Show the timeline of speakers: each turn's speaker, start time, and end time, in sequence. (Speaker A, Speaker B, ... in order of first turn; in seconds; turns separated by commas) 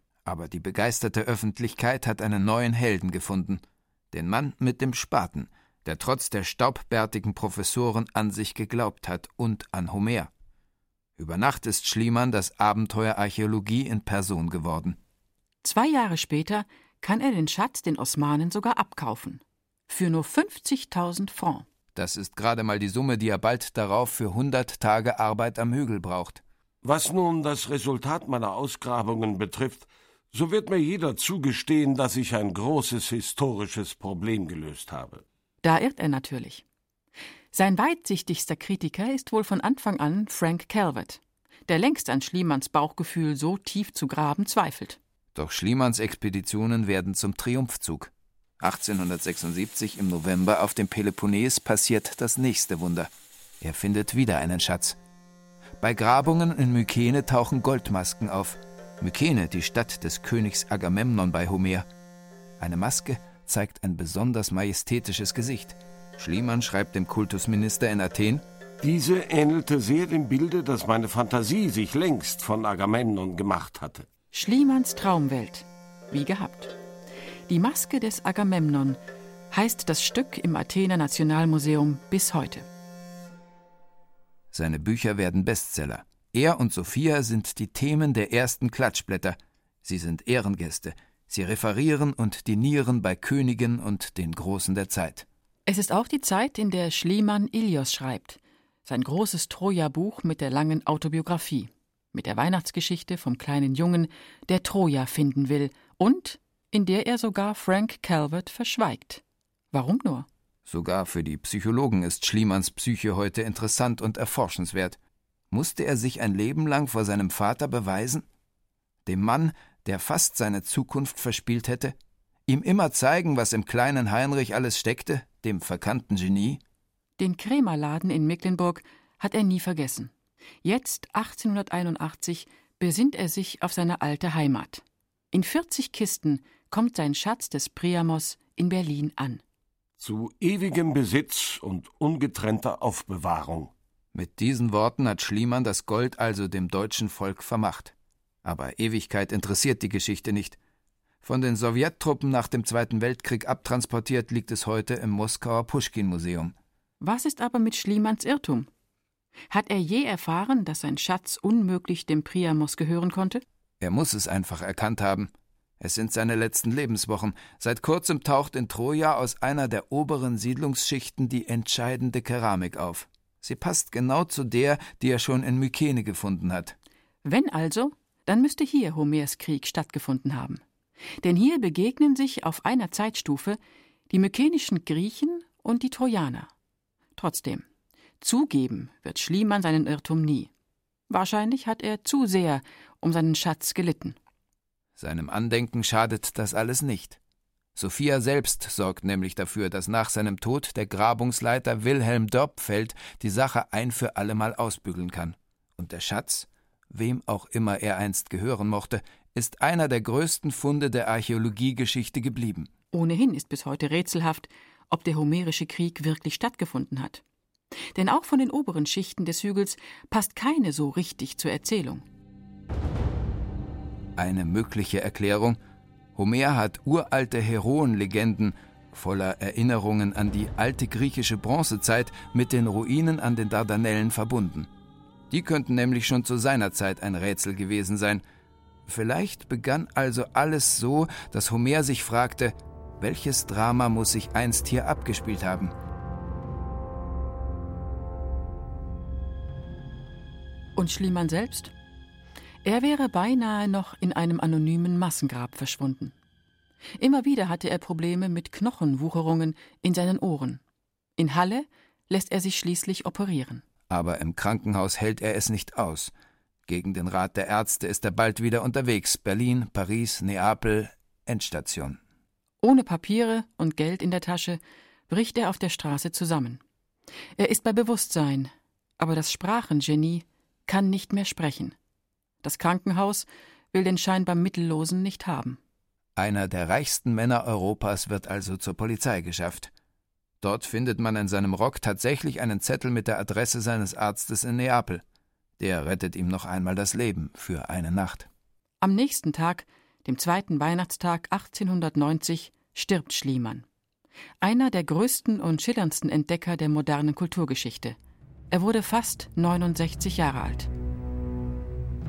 Speaker A: 0.2-10.3, Speaker A: 11.2-15.0, Speaker B: 15.6-21.6, Speaker A: 21.9-26.4, Speaker C: 26.8-35.2, Speaker B: 35.6-36.6, Speaker B: 37.5-45.0, Speaker A: 45.4-53.1, Speaker A: 53.6-55.0, Speaker A: 55.8-61.9, Speaker A: 62.6-68.4, Speaker C: 68.8-74.1, Speaker B: 74.3-76.8, Speaker B: 77.5-79.0, Speaker B: 79.5-82.7, Speaker A: 84.5-95.3, Speaker B: 95.7-110.3, Speaker A: 110.7-115.0, Speaker A: 115.5-118.3, Speaker A: 119.1-122.0, Speaker A: 122.5-126.6, Speaker B: 127.2-130.1, Speaker B: 130.6-139.4, Speaker C: 140.0-143.7, Speaker A: 144.1-150.6, Speaker A: 151.2-156.6, Speaker B: 157.0-158.7, Speaker B: 159.5-163.4, Speaker A: 163.8-176.8, Speaker B: 177.2-180.6, Speaker B: 181.2-183.6, Speaker B: 184.1-186.5, Speaker B: 187.2-187.7, Speaker B: 188.2-190.5, Speaker B: 191.1-194.2, Speaker A: 195.0-197.2, Speaker A: 197.8-212.7, Speaker B: 212.9-217.2, Speaker B: 217.9-222.0, Speaker A: 224.2-225.6, Speaker A: 226.2-234.7, Speaker A: 235.3-238.2, Speaker A: 238.9-245.7, Speaker B: 250.8-251.7, Speaker B: 252.6-256.1, Speaker B: 257.0-260.6, Speaker B: 261.2-263.6, Speaker A: 263.9-266.1, Speaker A: 266.7-272.0, Speaker B: 272.6-276.6, Speaker B: 277.4-281.8, Speaker B: 282.4-285.6, Speaker A: 286.2-289.7, Speaker A: 290.4-295.0, Speaker A: 295.6-298.3, Speaker B: 298.8-303.6, Speaker B: 304.4-308.0, Speaker B: 308.5-310.7